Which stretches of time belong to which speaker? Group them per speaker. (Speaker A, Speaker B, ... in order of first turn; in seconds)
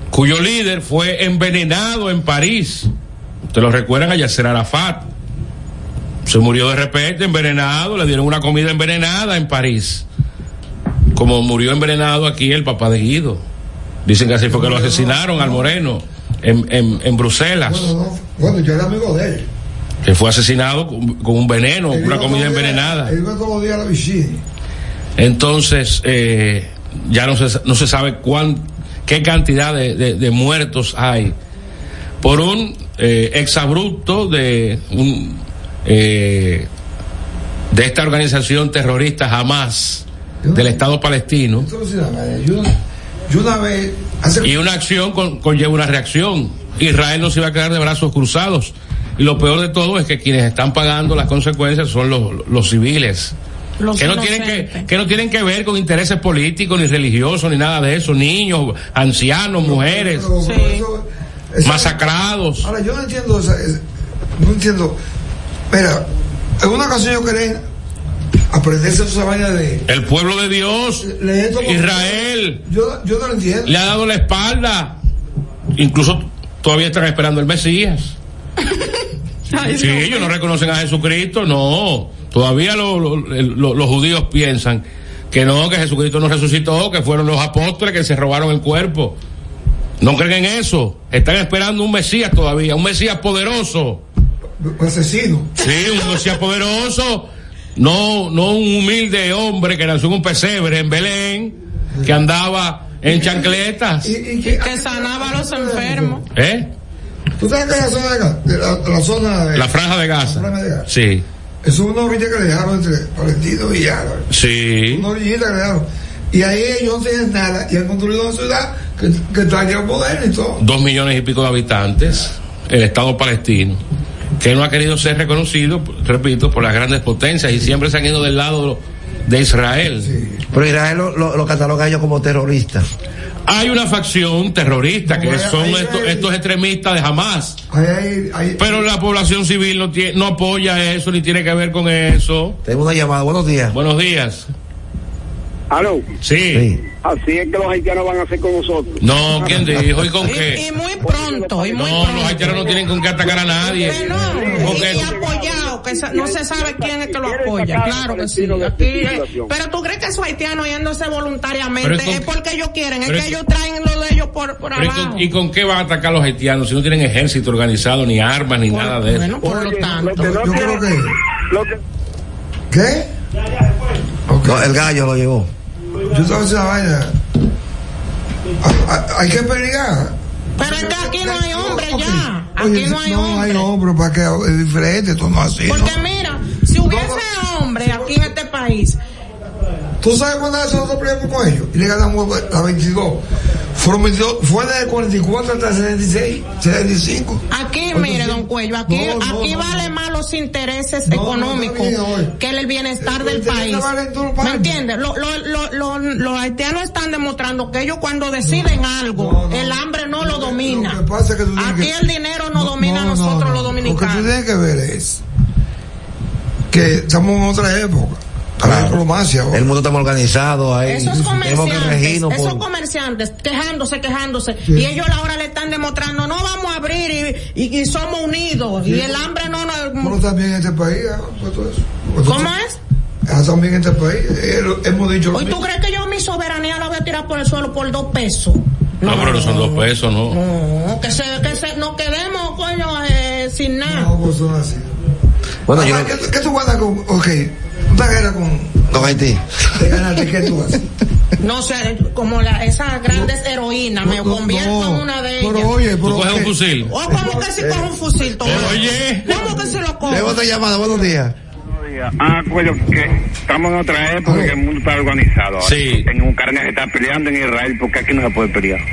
Speaker A: 0.1-2.9, 3.5-5.1, 6.2-10.1, 11.2-13.4, 14.1-17.9, 20.0-23.1, 25.2-31.4, 32.2-36.7, 37.7-41.7, 44.4-53.3, 54.0-60.3, 61.6-62.7, 69.9-71.1, 71.6-72.6, 73.7-75.0, 75.8-78.2, 79.7-89.2, 90.0-94.0, 95.6-104.1, 106.3-106.7, 109.5-111.2, 114.3-115.1, 120.6-123.8, 124.4-130.1, 133.5-137.6, 138.6-142.6, 143.7-144.5, 146.2-146.7, 149.0-150.6, 151.7-155.2, 161.8-162.3, 163.1-163.4, 164.8-169.4, 239.0-240.4, 256.0-256.9, 258.4-259.3, 265.6-266.1
Speaker B: 14.5-15.7, 17.6-19.5, 21.9-24.4, 40.4-40.8, 41.6-42.8, 43.3-44.5, 59.6-62.0, 62.6-63.8, 64.4-65.0, 65.7-66.1, 66.6-67.6, 68.5-69.8, 71.0-73.8, 94.6-95.5, 101.9-102.2, 103.0-106.2, 107.4-110.9, 111.6-114.3, 114.9-120.6, 130.0-130.4, 135.1-136.3, 137.7-138.9, 154.2-154.7, 170.2-171.1, 172.7-173.1, 174.3-174.7, 176.1-177.2, 178.6-186.0, 186.8-187.2, 187.8-188.3, 190.0-193.2, 193.8-199.9, 201.1-202.3, 203.0-204.8, 208.4-212.0, 212.5-215.2, 216.7-219.7, 221.1-221.4, 224.7-224.9, 228.8-229.2, 230.0-232.5, 233.3-235.6, 243.8-244.9, 245.7-249.2, 249.7-250.9, 254.0-260.3, 264.2-264.6
Speaker C: 53.8-54.9, 60.4-60.9, 79.5-80.3, 104.5-106.2, 150.2-152.7, 153.8-165.3, 168.7-170.4, 180.6-183.7, 185.7-189.0, 197.5-203.9, 204.4-211.0, 211.6-214.3, 220.9-230.2, 232.2-232.8, 235.3-244.1, 251.4-255.8, 256.9-260.4
Speaker D: 130.5-132.9, 142.7-143.8, 146.5-146.8, 174.4-175.5, 218.6-222.6, 245.7-246.2, 248.9-249.7, 260.1-261.4
Speaker E: 145.7-146.1, 146.9-149.8, 151.0-159.5, 169.4-171.8
Speaker F: 261.7-268.8